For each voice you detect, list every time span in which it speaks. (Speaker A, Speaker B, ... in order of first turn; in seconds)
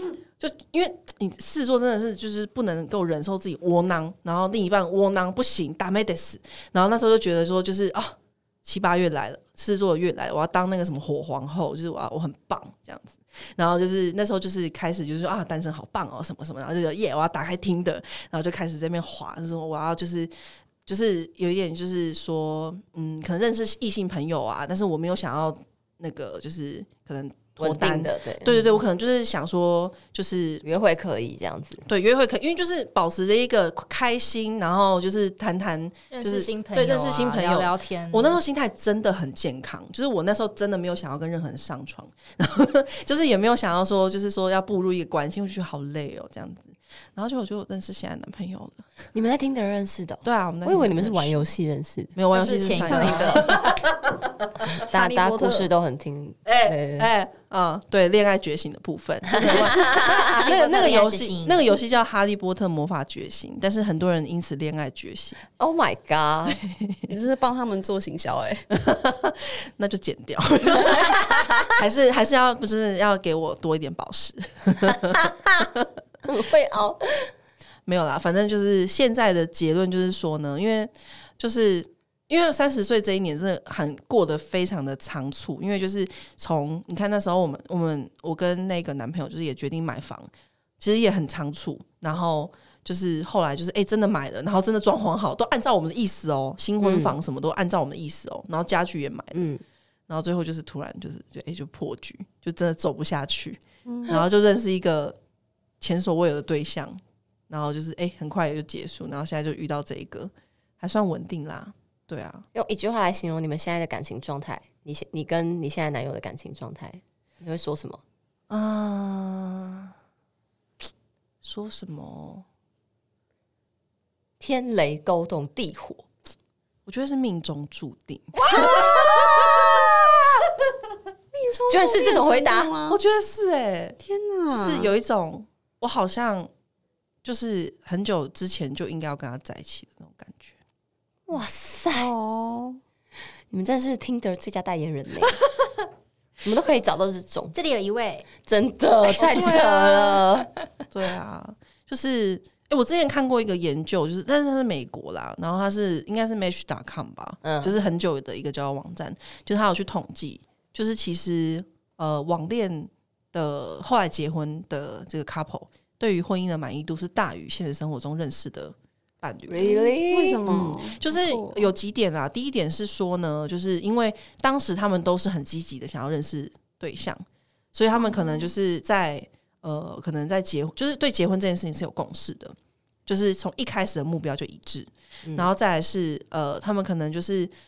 Speaker A: 0.4-20.3, 20.9-30.6, 31.9-48.9, 50.2-51.5, 52.1-54.8, 56.5-65.4, 66.6-67.0, 68.7-75.2, 77.9-99.5, 100.1-105.2, 105.8-112.5, 118.5-119.9, 121.4-122.5, 126.9-130.8, 132.9-134.0, 134.5-136.5, 137.2-140.6, 149.2-150.3, 150.9-169.9, 170.5-187.5
Speaker B: 27.6-28.8, 30.6-31.8, 49.1-52.2, 54.8-57.1, 59.3-60.4, 65.6-66.6, 74.9-75.7, 76.2-77.3, 96.8-97.1, 99.3-99.6, 112.5-118.0, 124.4-126.0, 131.7-132.7, 141.3-142.1, 143.5-145.4, 146.4-147.6, 148.4-150.5, 157.4-157.8, 169.5-170.4, 185.2-185.5
Speaker C: 36.1-38.4, 52.3-53.5, 59.9-61.6, 147.5-148.3
Speaker D: 52.7-53.5, 54.8-55.7, 67.1-68.7, 103.9-104.2, 128.5-130.5, 131.3-133.0, 134.0-134.9, 141.9-142.8, 170.1-171.7, 177.9-178.5